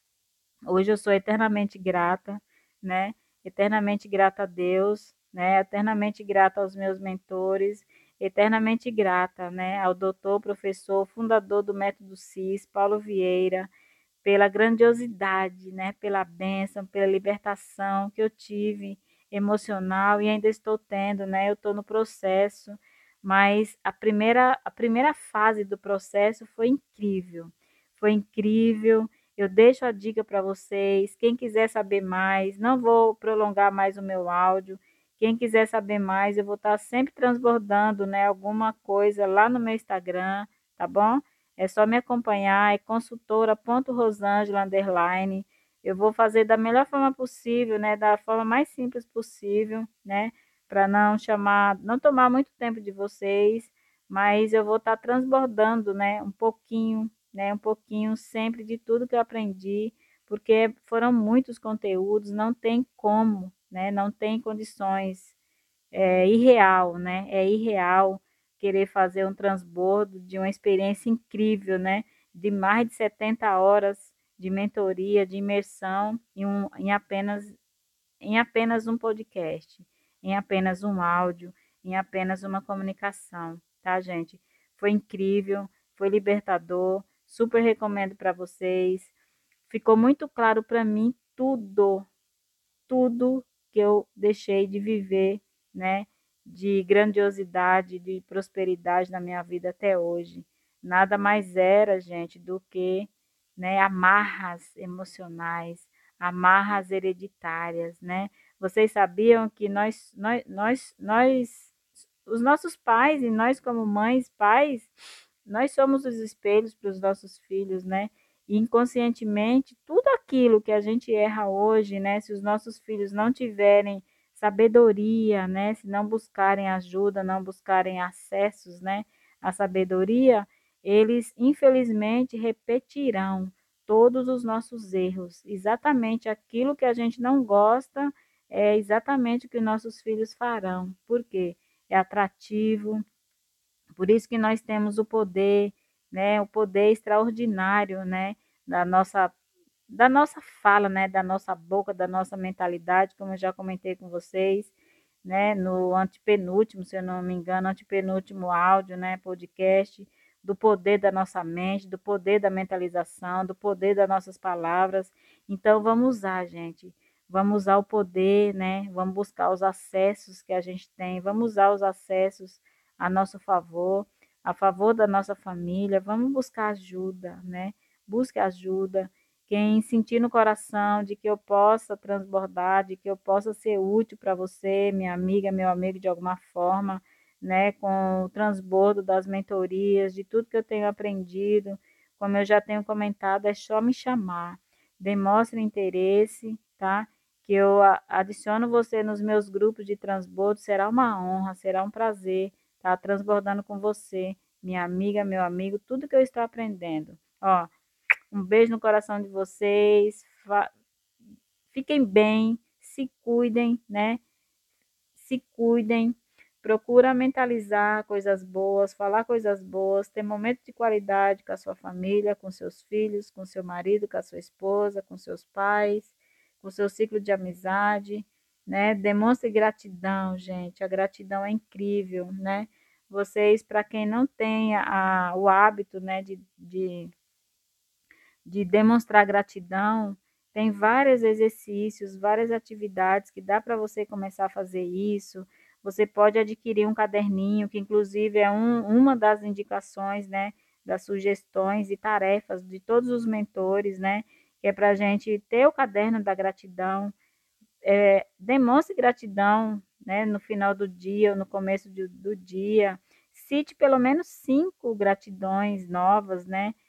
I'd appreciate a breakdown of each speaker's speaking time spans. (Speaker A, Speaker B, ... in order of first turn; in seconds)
Speaker A: 0.7-13.7, 14.2-65.3, 65.9-77.6, 78.2-89.1, 89.7-92.1, 92.9-114.9, 115.5-143.0, 144.0-149.3, 149.9-154.7, 155.2-207.7, 208.3-210.7, 211.7-214.2, 215.2-237.1, 238.4-257.1, 257.8-266.8